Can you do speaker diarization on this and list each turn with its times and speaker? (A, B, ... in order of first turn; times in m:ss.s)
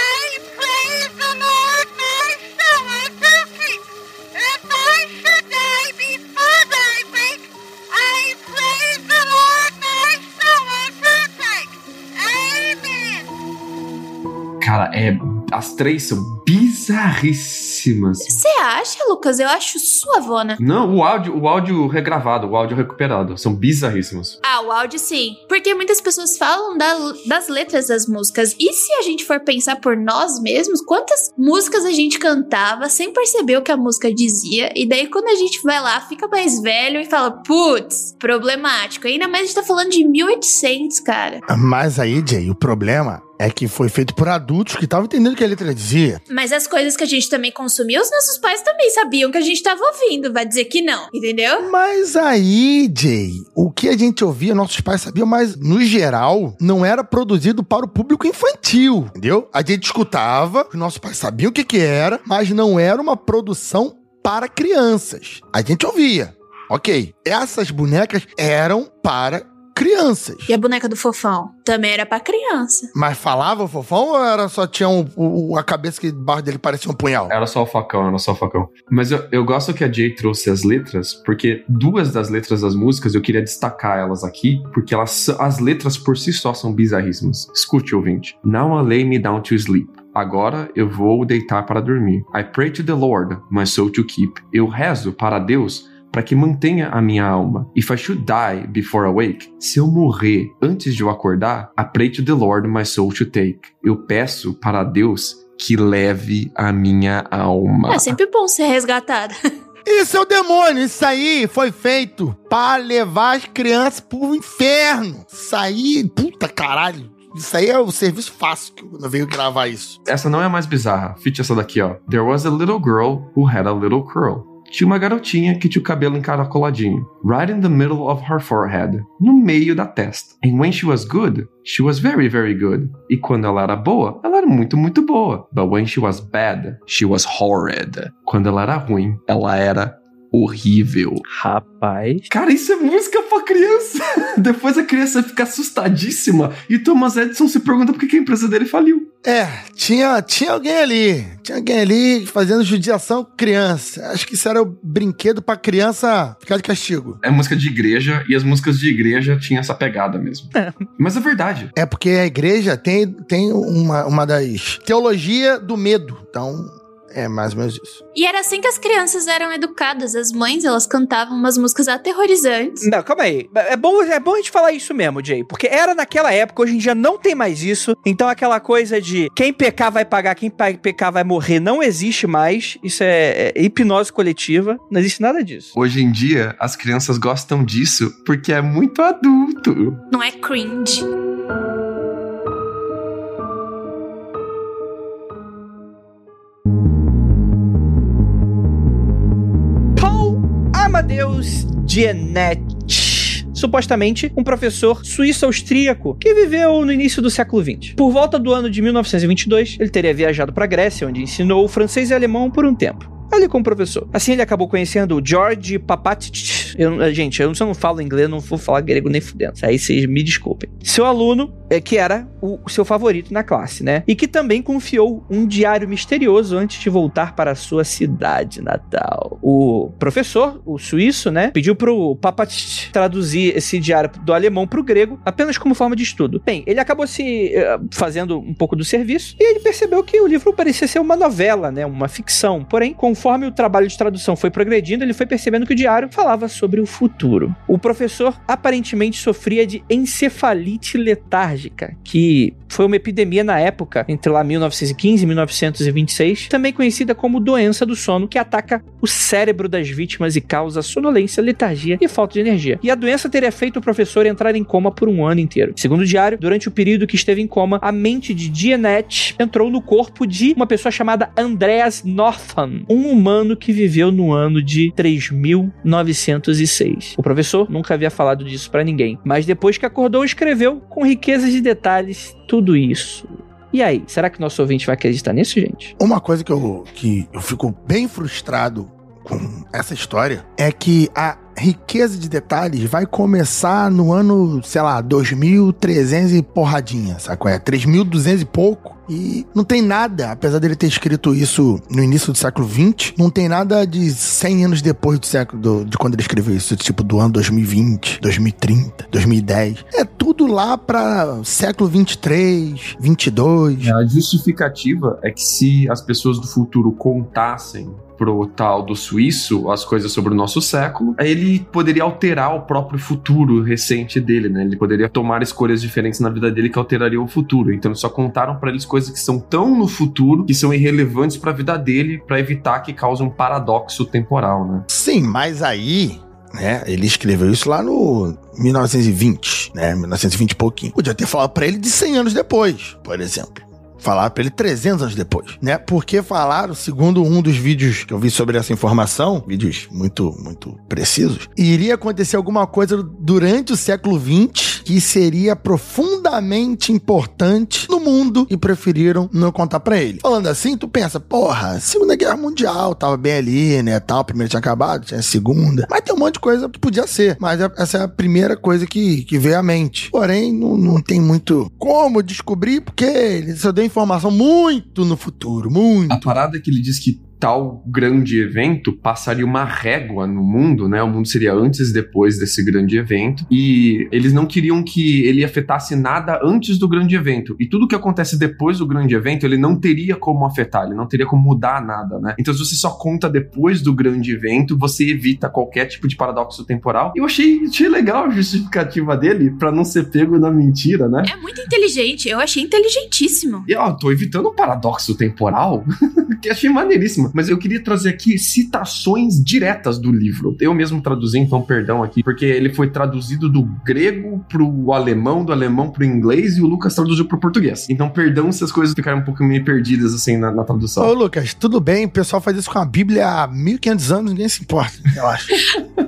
0:14.6-0:18.4 A
0:18.2-0:20.6 B
0:20.6-0:24.4 A
0:24.4-0:41.4 B
0:41.5-0:46.2 C
0:46.3-0:51.7 B
0:51.6-1:10.5 C
1:10.5-1:12.9 B
1:12.9-1:17.3 C
1:17.3-1:48.2 A
1:47.9-1:49.3 B
1:49.9-2:00.0 C
2:00.1-2:21.2 A
2:21.3-2:22.3 D
2:22.3-2:29.1 A
2:29.2-2:37.2 C
2:37.2-2:41.7 A
2:41.8-2:48.0 C
2:48.2-2:52.9 B
2:52.8-3:05.7 D
3:05.8-3:10.0 A
3:10.1-3:11.1 B
3:20.0-4:45.9 D
4:46.0-5:13.9 C
5:13.8-5:34.9 A
5:34.9-6:16.2 C
6:16.1-6:41.3 A
6:41.3-6:43.7 B
6:43.7-7:01.1 A
7:01.0-7:05.5 C